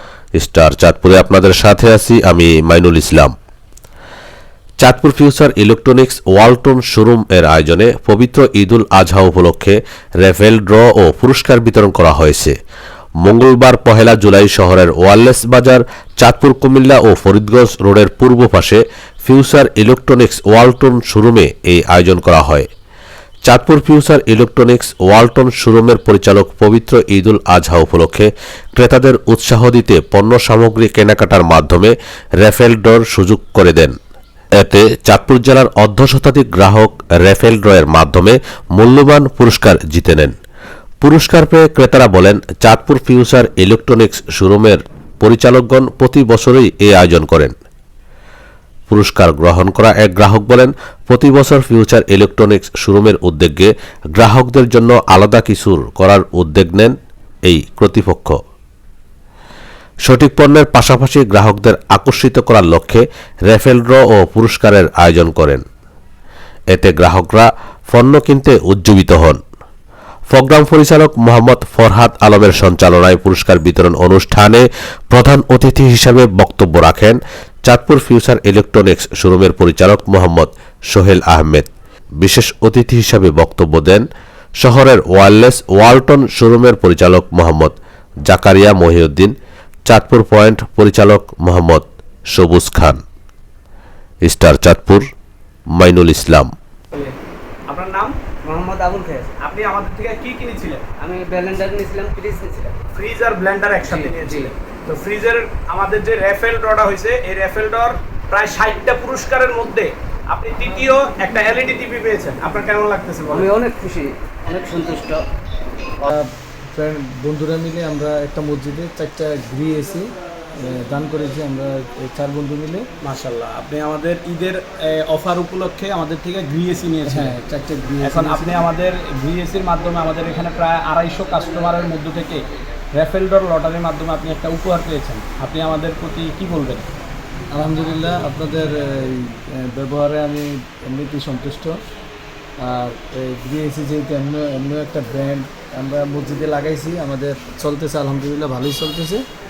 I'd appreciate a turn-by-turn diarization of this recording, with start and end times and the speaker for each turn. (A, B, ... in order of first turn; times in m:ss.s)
0:00.4-0:03.3 A
0:04.8-0:12.6 A
0:13.2-0:22.7 A
0:23.5-0:34.0 A
0:34.6-0:40.4 A
0:41.0-0:47.5 A
0:48.9-0:57.0 A
0:57.5-0:58.4 A
1:00.1-1:05.6 A
1:06.7-1:09.4 A
1:10.3-1:24.0 A
1:24.6-1:27.8 A
1:28.3-1:29.3 A
1:29.9-1:33.0 A
1:34.2-1:35.1 A
1:35.8-1:36.5 A
1:37.7-1:38.2 B
1:38.4-1:39.4 C
1:39.4-1:40.9 B
1:41.0-1:42.8 C
1:42.9-1:53.5 B
1:43.8-1:44.5 C
1:53.3-1:55.2 C
1:56.0-2:02.9 D
2:03.0-2:07.4 B
2:07.1-2:08.6 D
2:08.0-2:12.4 B
2:13.0-2:16.9 B
2:17.5-2:21.8 D
2:22.6-2:29.2 D